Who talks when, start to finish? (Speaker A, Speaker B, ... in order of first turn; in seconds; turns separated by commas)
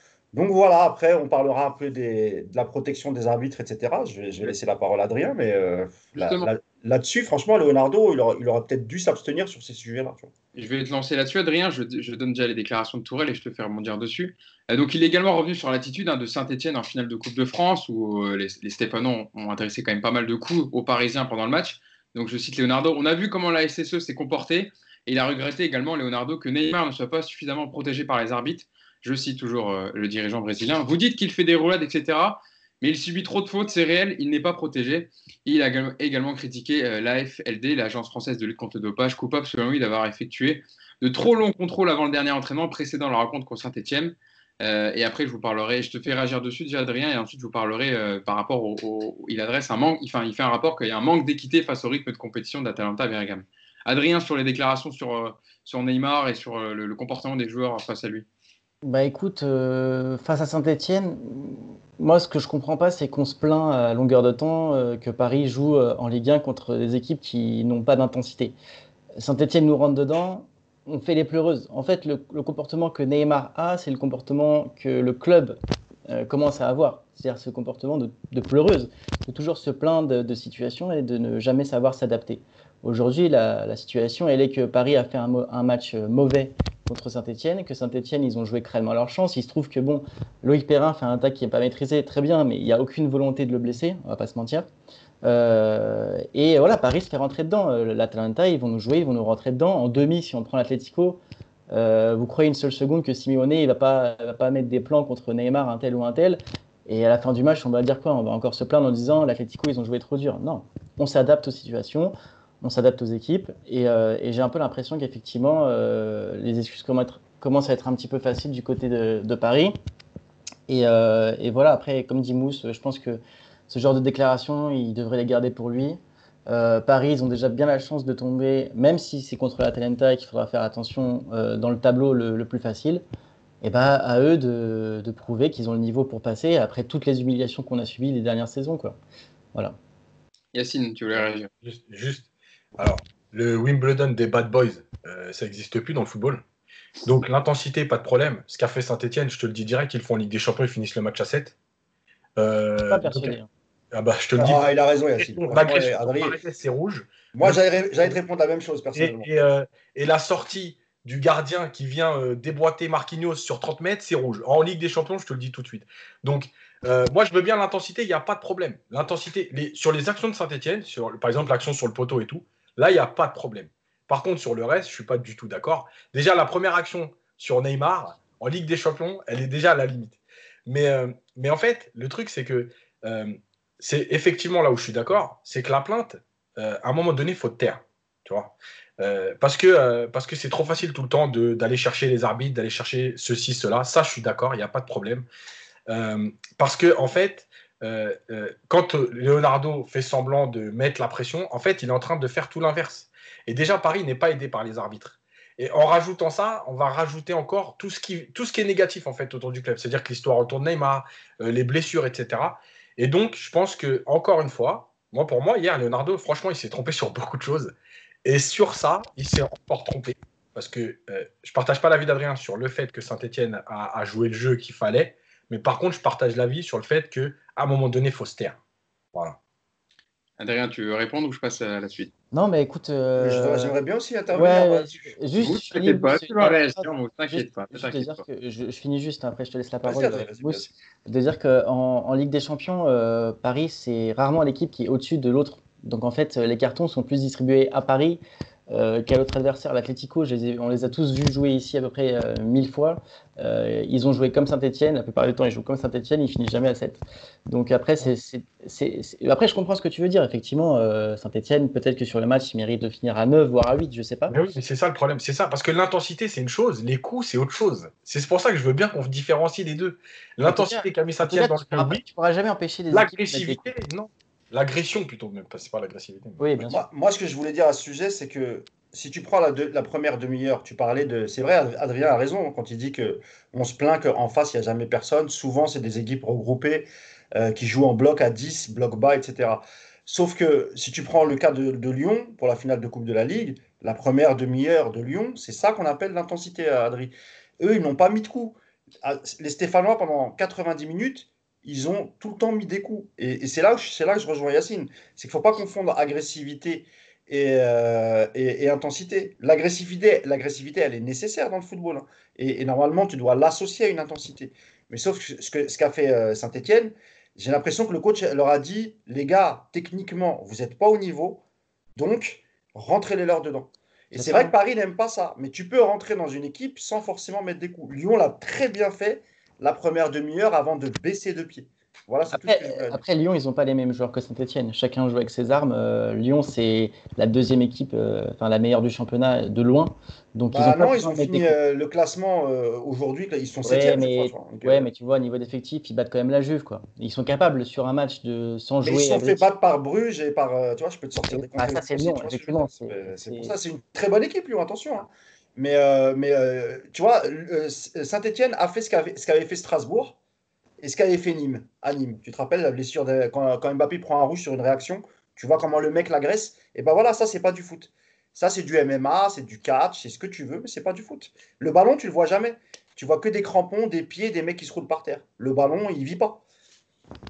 Speaker A: 0.3-10.3, Speaker B: 6.2-6.5, Speaker B: 10.6-58.3, Speaker C: 58.8-68.5, Speaker C: 69.2-75.6, Speaker C: 76.1-94.7, Speaker C: 95.2-119.8, Speaker C: 120.7-133.0, Speaker C: 133.6-139.0, Speaker B: 140.5-141.5, Speaker D: 141.6-146.4, Speaker D: 147.1-151.6, Speaker D: 152.4-153.4, Speaker C: 152.9-153.5, Speaker D: 153.9-154.6, Speaker A: 154.4-156.4, Speaker D: 155.2-158.2, Speaker A: 157.3-159.4, Speaker D: 159.0-195.3, Speaker D: 195.9-217.7, Speaker D: 218.2-228.6, Speaker B: 230.4-232.1, Speaker C: 232.3-233.8, Speaker A: 233.2-235.2, Speaker C: 234.3-264.4, Speaker B: 235.4-238.2, Speaker A: 239.8-240.7, Speaker D: 264.3-272.0, Speaker C: 270.4-273.7, Speaker D: 272.9-276.6, Speaker C: 276.4-276.8, Speaker A: 276.7-321.4, Speaker A: 321.9-333.0, Speaker C: 324.1-324.5, Speaker C: 332.3-341.6, Speaker A: 340.5-344.9, Speaker C: 343.6-349.4, Speaker A: 348.8-360.2, Speaker C: 351.3-353.6, Speaker A: 360.8-376.4